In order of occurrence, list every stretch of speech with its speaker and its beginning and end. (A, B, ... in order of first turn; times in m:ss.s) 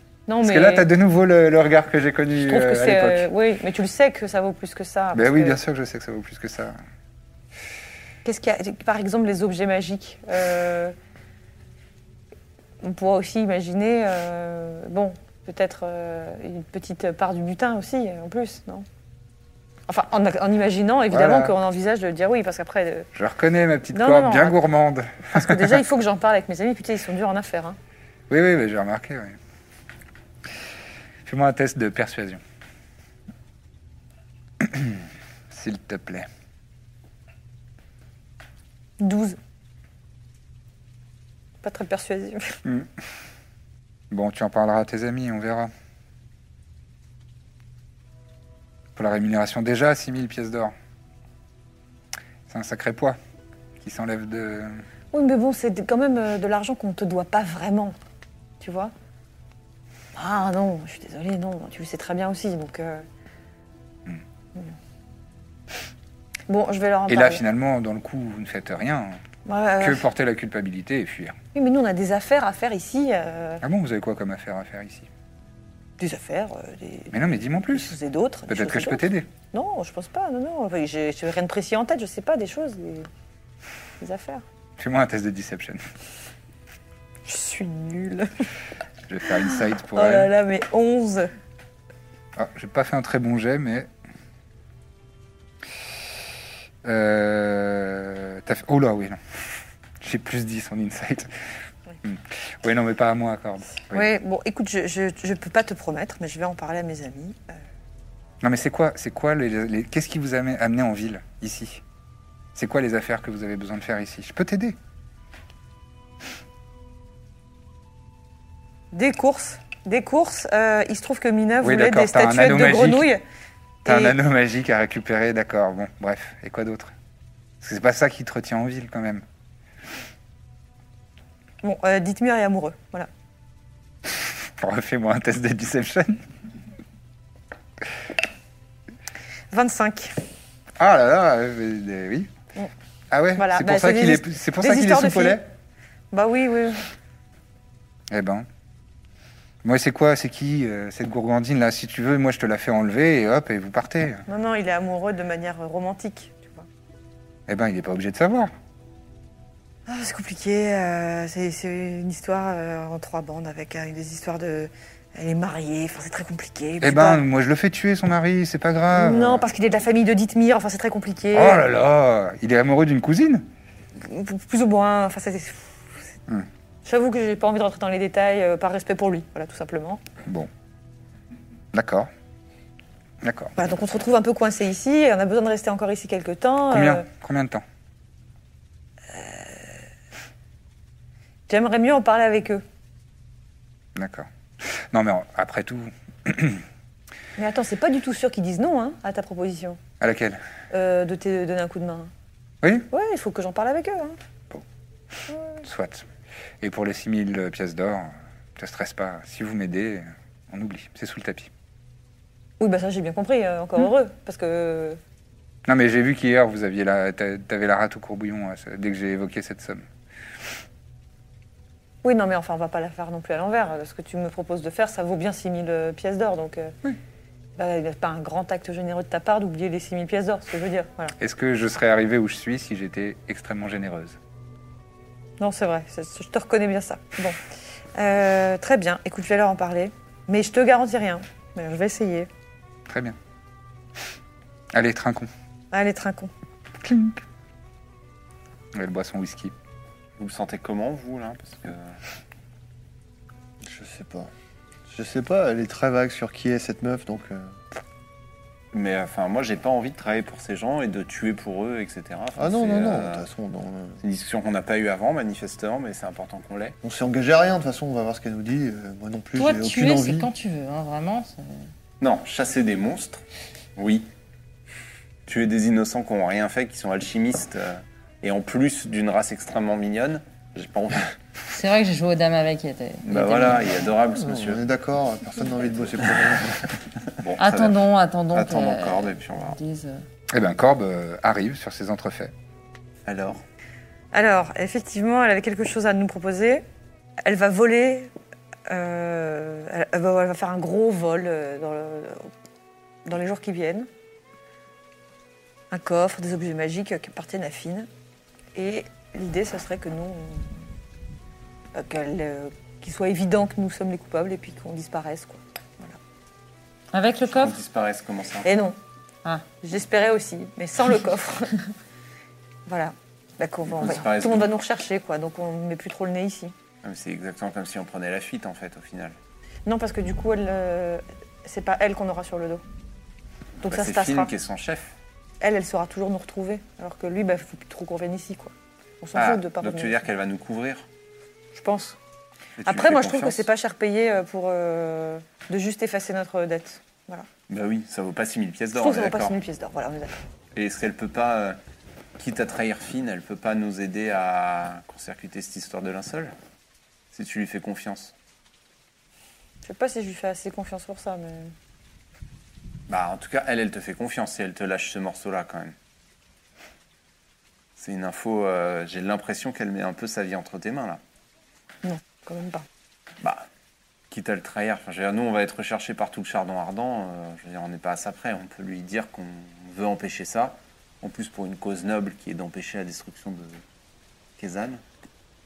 0:00.3-0:00.9 A
0:00.4-0:03.3 B
0:02.4-0:05.6 A
0:05.1-0:06.8 B
0:08.2-0:11.0 A
0:12.8-0:18.9 A
0:19.9-0:23.1 A
0:21.1-0:21.5 B
0:23.2-0:25.8 B
0:23.9-0:24.6 A
0:25.3-0:27.8 A
0:28.3-0:29.4 B
0:31.2-0:32.4 B
0:34.6-0:36.3 B
0:39.0-0:39.4 A
0:41.6-0:42.6 A
0:44.1-0:45.7 B
0:49.0-0:50.7 B
0:52.5-0:53.2 B
0:53.8-0:54.8 B
0:55.1-0:58.0 A
0:58.6-0:58.9 A
1:00.2-1:03.0 A
1:06.5-1:07.4 A
1:07.1-1:09.2 B
1:09.5-1:10.1 A
1:09.8-1:11.4 B
1:11.6-1:13.6 A
1:13.6-1:15.1 B
1:16.0-1:23.1 A
1:17.1-1:18.0 B
1:18.5-1:19.3 B
1:24.0-1:24.4 A
1:24.8-1:25.8 B
1:27.2-1:28.3 A
1:29.1-1:30.3 B
1:29.4-1:31.3 A
1:32.4-1:33.9 B
1:36.8-1:39.2 B
1:40.0-1:41.3 B
1:42.0-1:44.1 B
1:43.9-1:47.6 A
1:48.4-1:51.8 B
1:52.6-1:54.8 B
1:58.9-2:03.2 A
2:01.6-2:03.1 B
2:03.8-2:06.9 B
2:03.9-2:04.2 A
2:07.6-2:09.2 B
2:11.6-2:13.1 A
2:14.6-2:16.3 B
2:19.5-2:20.2 A
2:20.8-2:22.3 B
2:23.1-2:25.4 B
2:23.4-2:25.4 A
2:26.1-2:26.9 A
2:28.1-2:28.5 B
2:29.6-2:34.2 B
2:34.3-2:36.7 A
2:37.5-2:38.5 B
2:39.9-2:47.2 A
2:46.8-2:49.4 B
2:48.9-2:51.7 A
2:51.3-2:53.5 B
2:54.0-2:56.0 A
2:56.8-3:00.0 A
3:01.7-3:02.1 B
3:03.2-3:03.5 B
3:03.6-3:07.1 A
3:06.7-3:07.6 B
3:09.1-3:09.8 A
3:11.5-3:12.6 A
3:14.0-3:16.7 B
3:17.4-3:19.8 A
3:20.0-3:20.4 B
3:20.7-3:22.1 A
3:22.6-3:22.9 B
3:22.9-3:24.2 A
3:25.3-3:25.6 A
3:25.6-3:26.1 B
3:26.6-3:31.5 B
3:32.6-3:35.0 A
3:35.7-3:39.8 B
3:42.0-3:46.8 A
3:47.6-3:51.2 A
3:51.2-3:54.2 B
3:55.4-3:57.4 A
3:58.0-4:02.3 A
4:02.9-4:03.2 B
4:04.7-4:05.3 B
4:05.7-4:06.3 A
4:06.8-4:07.2 B
4:08.7-4:09.5 B
4:10.2-4:12.0 C
4:13.6-4:14.3 D
4:14.9-4:17.6 D
4:18.7-4:23.3 C
4:22.4-4:24.0 D
4:24.0-4:26.8 C
4:26.8-4:30.3 D
4:29.4-4:31.7 E
4:32.0-4:33.2 C
4:33.8-4:34.1 C
4:35.3-4:41.2 C
4:41.5-4:43.9 E
4:43.0-4:44.6 C
4:44.2-4:46.7 D
4:47.2-4:47.8 C
4:47.4-4:50.0 E
4:48.3-4:49.6 C
4:50.3-4:52.3 B
4:53.1-4:53.4 C
4:54.1-4:56.6 A
4:57.2-4:58.1 A
4:58.7-5:02.3 A
5:03.0-5:03.9 A
5:05.7-5:07.9 A
5:08.6-5:10.6 A
5:11.7-5:16.0 A
5:16.9-5:17.6 E
5:17.3-5:18.5 C
5:18.4-5:18.8 A
5:19.6-5:21.6 A
5:22.7-5:26.5 A
5:23.7-5:24.5 C
5:26.8-5:29.2 C
5:29.7-5:32.6 A
5:33.6-5:35.0 C
5:33.6-5:34.3 A
5:35.4-5:40.0 A
5:39.2-5:40.9 C
5:41.5-5:42.0 A
5:42.6-5:43.5 C
5:42.6-5:47.3 A
5:47.5-5:49.4 C
5:48.8-5:50.2 A
5:50.6-5:51.6 C
5:52.2-5:56.3 C
5:57.1-5:58.1 C
5:59.6-6:01.5 A
6:02.9-6:05.7 C
6:07.8-6:11.0 C
6:11.8-6:12.6 A
6:14.1-6:23.6 C
6:24.4-6:24.8 C